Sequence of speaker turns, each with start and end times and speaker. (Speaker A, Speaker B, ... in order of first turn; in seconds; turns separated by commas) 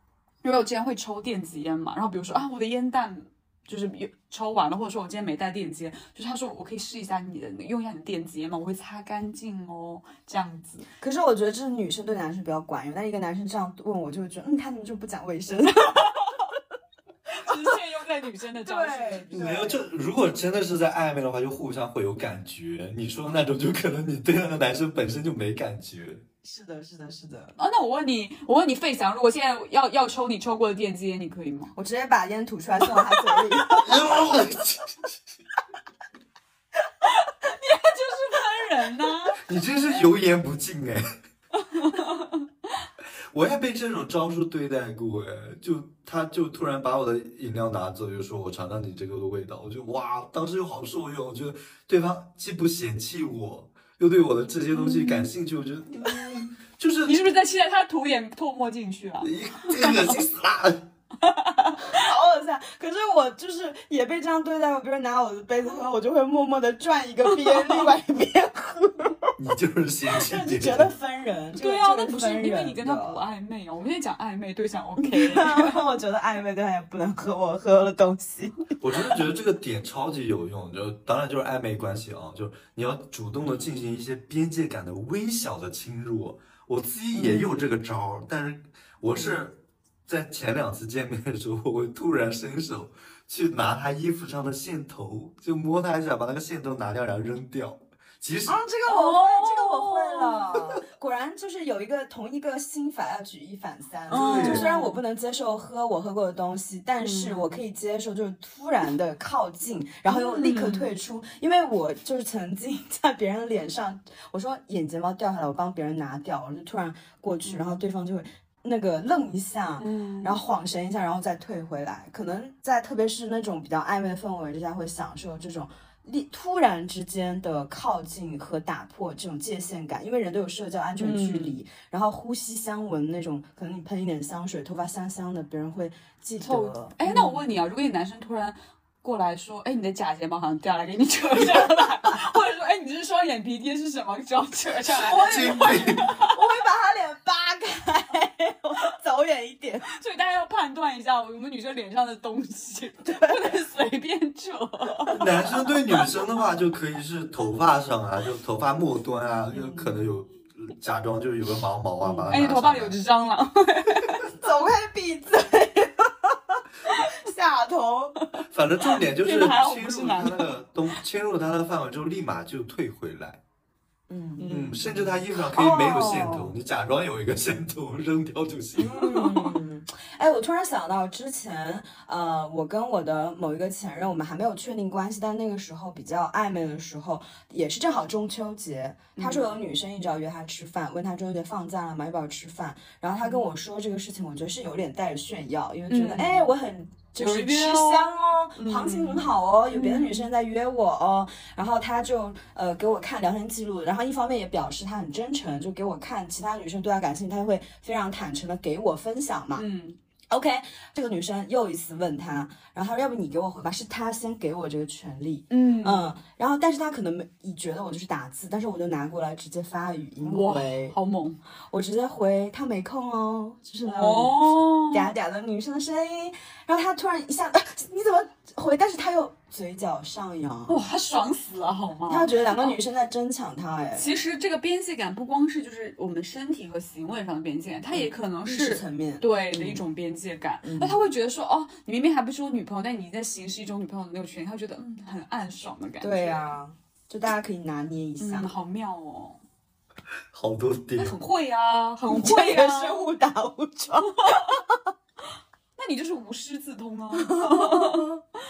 Speaker A: 0.4-10.9, Speaker B: 11.0-16.4, Speaker A: 17.3-19.4, Speaker B: 17.5-17.7, Speaker B: 18.6-19.8, Speaker C: 19.3-26.2, Speaker B: 26.4-27.6, Speaker A: 27.6-31.7, Speaker B: 31.7-34.3, Speaker C: 33.8-35.2, Speaker A: 37.0-39.4, Speaker C: 39.4-41.0, Speaker A: 41.5-42.5, Speaker C: 43.3-57.2, Speaker A: 54.7-55.3, Speaker A: 57.0-60.2, Speaker C: 59.2-60.9, Speaker A: 61.2-62.0, Speaker B: 61.9-69.3, Speaker A: 67.3-67.9, Speaker C: 69.4-70.9, Speaker B: 70.1-73.2, Speaker A: 71.5-75.8, Speaker B: 75.0-78.8, Speaker C: 78.8-98.6, Speaker B: 87.1-87.6, Speaker B: 98.5-137.4, Speaker A: 98.8-100.5, Speaker A: 104.1-105.0, Speaker C: 104.1-104.7, Speaker A: 107.0-107.6, Speaker A: 110.1-110.9, Speaker A: 117.4-117.8, Speaker A: 119.8-120.4, Speaker A: 131.0-131.6, Speaker A: 136.4-146.3, Speaker B: 144.9-149.9, Speaker C: 145.1-146.1, Speaker A: 149.9-155.5, Speaker B: 153.1-153.4, Speaker C: 155.1-163.0, Speaker A: 162.0-164.2, Speaker B: 164.3-168.2, Speaker A: 166.8-167.1, Speaker A: 168.2-170.5, Speaker C: 168.5-173.4, Speaker B: 174.1-174.5, Speaker A: 174.4-175.1, Speaker C: 174.5-179.0, Speaker B: 175.4-176.5, Speaker B: 178.8-209.6, Speaker A: 179.0-179.6, Speaker A: 189.2-189.5, Speaker A: 195.9-196.5, Speaker A: 197.2-200.3, Speaker A: 209.5-210.0, Speaker B: 210.3-220.9, Speaker A: 215.5-216.1, Speaker A: 220.2-221.4, Speaker B: 221.7-230.8, Speaker A: 223.8-225.1, Speaker A: 230.7-232.8, Speaker B: 232.1-234.1, Speaker A: 233.9-246.4, Speaker B: 237.9-239.8, Speaker B: 240.6-241.0, Speaker B: 246.0-248.5, Speaker A: 248.2-249.4, Speaker C: 250.3-251.2, Speaker A: 251.0-253.1, Speaker B: 252.1-254.8, Speaker A: 254.1-254.6, Speaker A: 255.8-258.1, Speaker B: 257.1-258.2